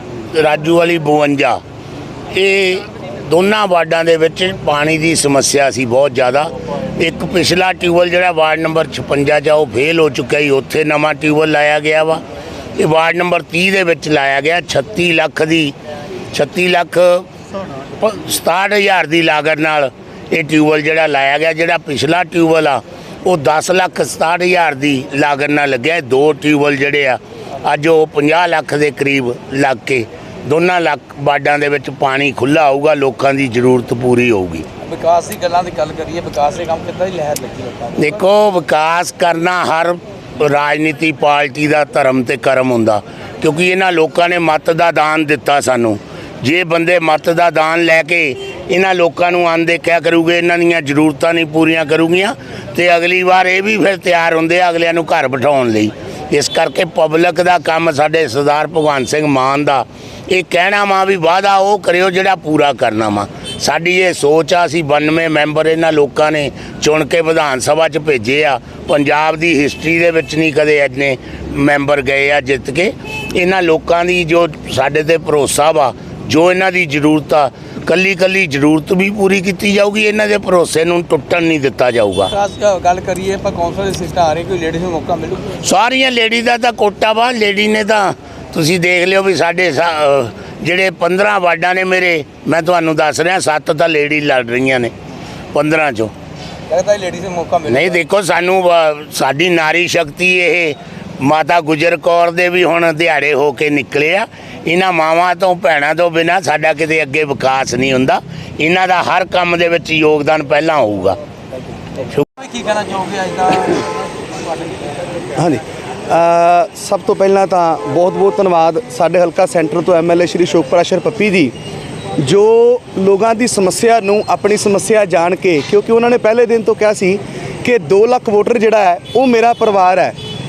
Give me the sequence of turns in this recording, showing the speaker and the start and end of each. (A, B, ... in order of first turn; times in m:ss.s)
0:00.3-0:01.6 A
0:02.3-0:12.2 A
0:12.8-0:15.7 A
0:16.3-0:17.3 A
0:18.0-0:34.6 A
0:34.8-0:38.1 B
0:38.0-1:22.3 A
1:22.3-1:25.6 B
1:25.6-1:34.9 A
1:35.5-1:36.1 A
1:36.7-1:38.0 B
1:37.7-1:51.2 A
1:52.4-1:54.9 B
1:55.4-2:01.5 C
2:02.2-2:10.1 C